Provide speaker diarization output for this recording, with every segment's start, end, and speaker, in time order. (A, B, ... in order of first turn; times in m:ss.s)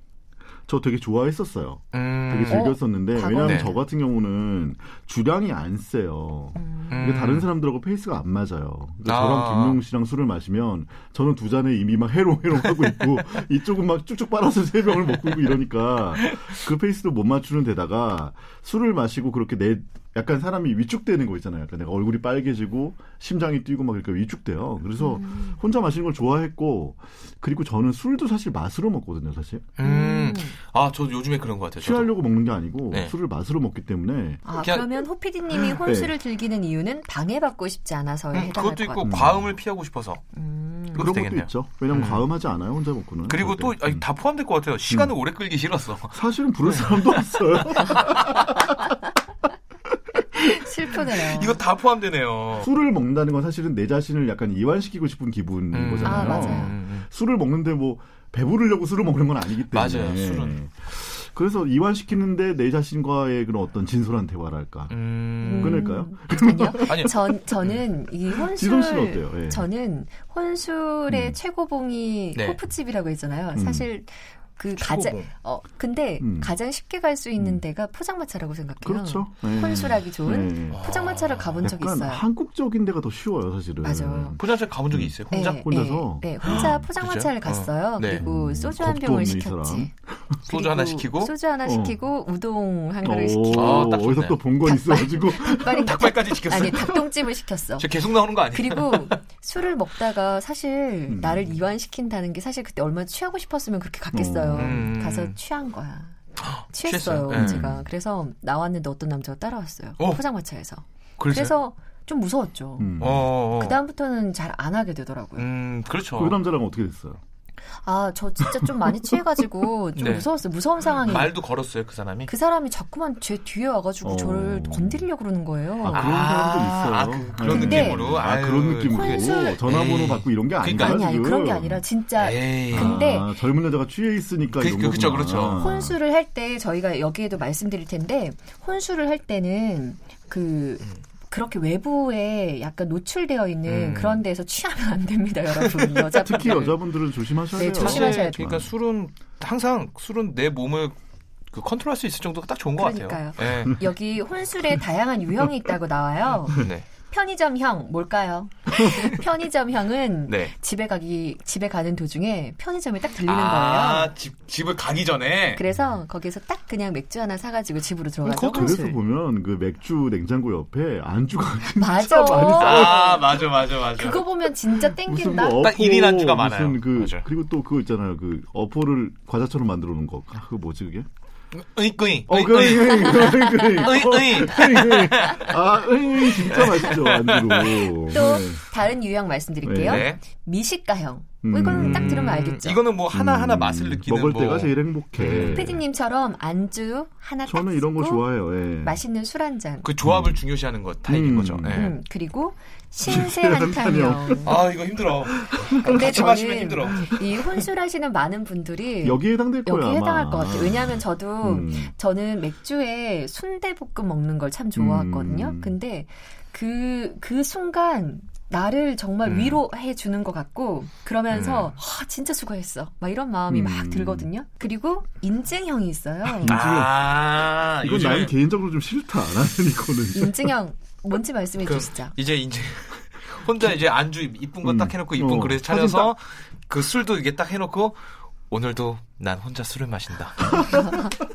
0:00.7-0:29.7 A
0:01.9-0:02.8 B
0:02.5-0:03.8 C
0:03.3-0:03.7 B
0:06.6-0:07.0 C
0:06.9-0:07.5 B
0:09.0-0:09.8 B
0:25.0-0:25.6 C
0:29.8-0:32.1 B
0:29.8-0:30.6 C
0:31.8-0:34.4 A
0:34.4-0:39.1 C
0:34.6-0:35.0 B
0:35.6-0:36.2 A
0:38.3-0:40.2 B
0:39.0-0:39.6 A
0:40.3-0:41.1 C
0:40.9-0:42.3 B
0:40.9-0:44.0 A
0:43.3-0:47.2 B
0:44.9-0:45.1 A
0:46.1-0:48.9 A
0:50.2-0:50.7 A
0:50.5-0:51.6 C
0:51.2-0:52.7 B
0:52.6-1:04.9 A
0:55.7-0:57.1 B
0:56.0-0:56.7 C
0:59.7-1:00.6 B
1:04.9-1:05.9 B
1:05.4-1:22.2 C
1:05.5-1:07.3 A
1:06.8-1:07.1 B
1:08.3-1:09.7 A
1:11.1-1:11.4 A
1:13.5-1:13.9 A
1:14.8-1:15.3 B
1:16.2-1:16.5 A
1:17.4-1:17.6 A
1:18.8-1:20.9 A
1:20.7-1:21.6 B
1:21.6-1:26.8 A
1:23.8-1:24.4 C
1:24.4-1:25.6 B
1:25.3-1:29.9 C
1:26.4-1:28.2 B
1:28.2-1:30.3 A
1:30.4-1:34.0 C
1:30.5-1:31.3 B
1:31.6-1:32.0 A
1:33.0-1:35.9 A
1:33.5-1:34.4 B
1:34.6-1:46.2 C
1:35.6-1:37.0 B
1:37.8-1:39.2 B
1:41.1-1:41.6 A
1:44.1-1:44.9 A
1:44.5-1:45.4 B
1:46.4-1:47.7 B
1:46.7-1:52.9 C
1:47.3-1:47.8 A
1:51.2-1:51.6 B
1:52.8-1:53.3 A
1:53.0-1:53.8 B
1:53.5-1:55.5 C
1:55.4-1:56.4 B
1:56.2-1:57.2 A
1:57.8-2:01.3 C
2:00.0-2:00.3 B
2:01.0-2:02.3 B
2:02.3-2:06.1 C
2:04.0-2:05.1 A
2:05.8-2:11.8 A
2:05.9-2:11.0 B
2:07.5-2:08.0 C
2:08.9-2:09.6 C
2:10.8-2:13.4 C
2:12.2-2:13.0 B
2:12.7-2:16.0 A
2:14.5-2:15.7 B
2:15.5-2:28.5 C
2:23.6-2:24.2 B
2:25.8-2:26.5 B
2:26.2-2:28.7 A
2:27.6-2:31.0 B
2:31.5-2:33.9 B
2:32.8-2:44.1 C
2:36.5-2:36.8 B
2:40.3-2:40.5 B
2:43.2-2:45.6 B
2:45.5-2:49.0 C
2:48.2-2:48.8 B
2:48.2-2:53.4 A
2:51.6-2:55.7 C
2:52.6-2:54.2 B
2:54.8-3:01.1 A
2:55.6-2:57.2 B
3:01.5-3:05.6 B
3:02.3-3:08.6 A
3:03.1-3:03.8 C
3:06.4-3:08.0 B
3:08.1-3:12.8 C
3:09.6-3:10.1 A
3:09.8-3:10.2 B
3:11.4-3:12.3 A
3:11.7-3:15.7 B
3:13.1-3:15.8 A
3:15.4-3:19.9 C
3:17.4-3:19.0 A
3:19.8-3:22.0 B
3:20.0-3:20.4 A
3:21.1-3:21.9 A
3:21.7-3:24.6 C
3:23.0-3:24.5 A
3:24.4-3:27.2 B
3:25.3-3:26.1 A
3:25.8-3:46.6 C
3:26.9-3:27.6 A
3:29.0-3:31.9 A
3:34.7-3:35.8 A
3:39.2-3:39.6 B
3:41.3-3:41.7 B
3:43.5-3:44.3 A
3:46.2-3:47.2 A
3:46.4-3:48.3 B
3:47.8-3:50.6 A
3:50.1-3:52.1 C
3:51.6-4:00.9 B
3:54.6-3:56.1 A
4:00.5-4:01.2 A